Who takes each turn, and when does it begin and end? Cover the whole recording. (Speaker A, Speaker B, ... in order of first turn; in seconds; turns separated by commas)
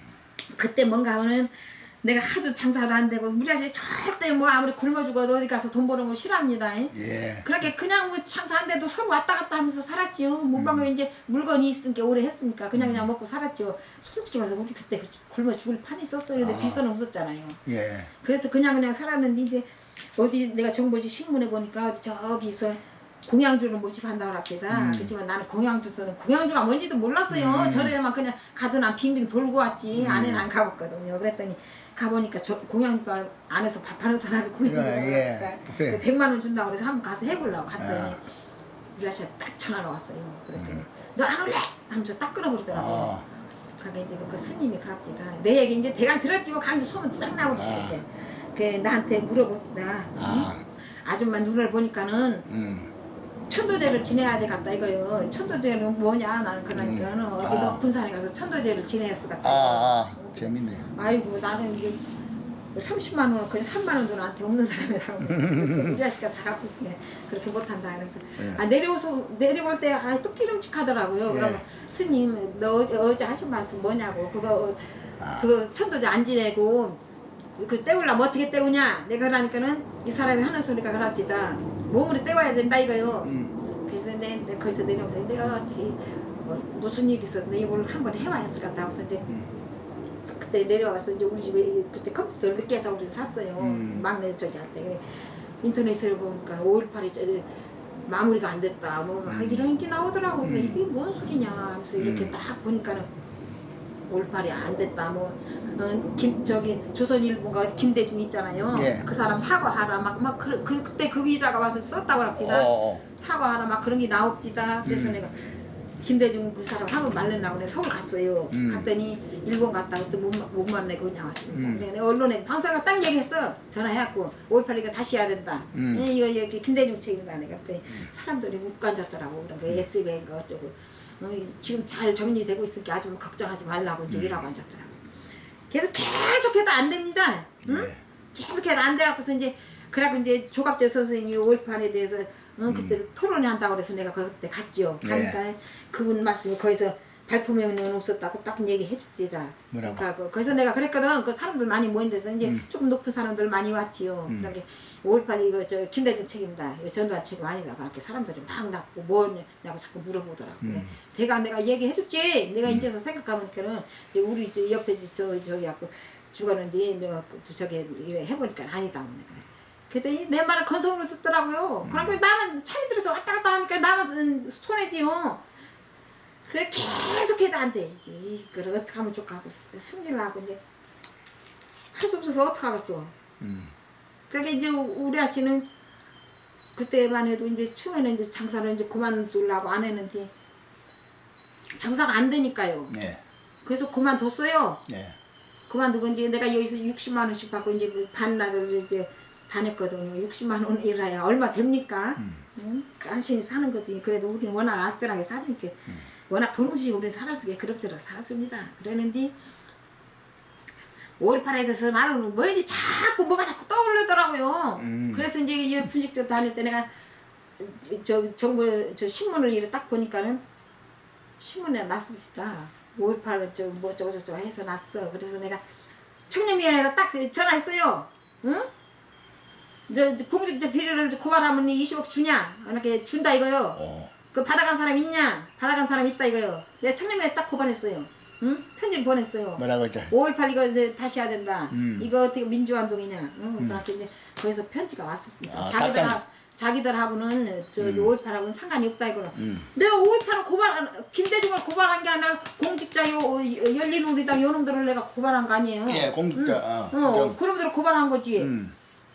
Speaker A: 0.5-17.6, Speaker B: 6.9-7.5, Speaker B: 10.6-10.9, Speaker B: 12.7-13.1, Speaker B: 16.4-16.8, Speaker B: 17.7-18.1, Speaker A: 18.2-38.2, Speaker B: 24.7-25.1, Speaker B: 27.3-27.9, Speaker B: 29.9-30.4, Speaker B: 34.6-36.0, Speaker B: 37.8-38.2, Speaker A: 39.0-43.1, Speaker B: 40.6-40.9, Speaker B: 42.7-43.3, Speaker A: 43.8-50.5, Speaker B: 47.5-48.0, Speaker B: 50.2-50.6, Speaker A: 51.0-52.5, Speaker B: 52.5-52.9, Speaker A: 53.5-62.0, Speaker B: 56.8-57.8, Speaker B: 59.4-60.9, Speaker A: 62.8-77.0, Speaker B: 65.4-65.9, Speaker B: 71.3-71.6, Speaker B: 75.2-75.5, Speaker A: 77.6-83.3, Speaker B: 83.2-83.5, Speaker A: 83.9-89.3, Speaker A: 90.3-97.5, Speaker B: 93.6-94.0, Speaker A: 98.0-103.1, Speaker B: 99.3-99.7, Speaker B: 100.4-100.8, Speaker B: 102.0-102.3, Speaker A: 104.1-135.0, Speaker B: 108.7-109.1, Speaker B: 112.4-113.0, Speaker B: 114.8-115.2, Speaker B: 118.5-118.9, Speaker B: 121.5-121.9, Speaker B: 125.7-126.1, Speaker B: 134.1-134.4, Speaker A: 135.7-175.4, Speaker B: 137.7-138.0, Speaker B: 142.7-143.0, Speaker B: 145.0-145.4, Speaker B: 149.7-150.1, Speaker B: 154.3-154.5, Speaker B: 160.6-160.9, Speaker B: 171.8-172.2, Speaker A: 176.5-180.6, Speaker A: 181.9-183.1, Speaker B: 183.4-183.7, Speaker A: 184.3-185.7, Speaker A: 186.8-190.3, Speaker A: 191.8-192.9, Speaker B: 192.9-193.2, Speaker A: 193.7-194.8, Speaker B: 194.9-195.2, Speaker A: 195.7-209.3, Speaker A: 211.2-216.9, Speaker B: 214.8-215.3, Speaker A: 217.6-220.4, Speaker A: 221.4-225.6, Speaker A: 226.3-228.7, Speaker A: 229.9-258.5, Speaker B: 233.8-234.1, Speaker B: 239.6-240.1, Speaker B: 241.7-242.1, Speaker B: 245.5-246.2, Speaker B: 247.8-248.1, Speaker B: 249.3-249.7, Speaker B: 255.9-257.4, Speaker B: 258.4-258.8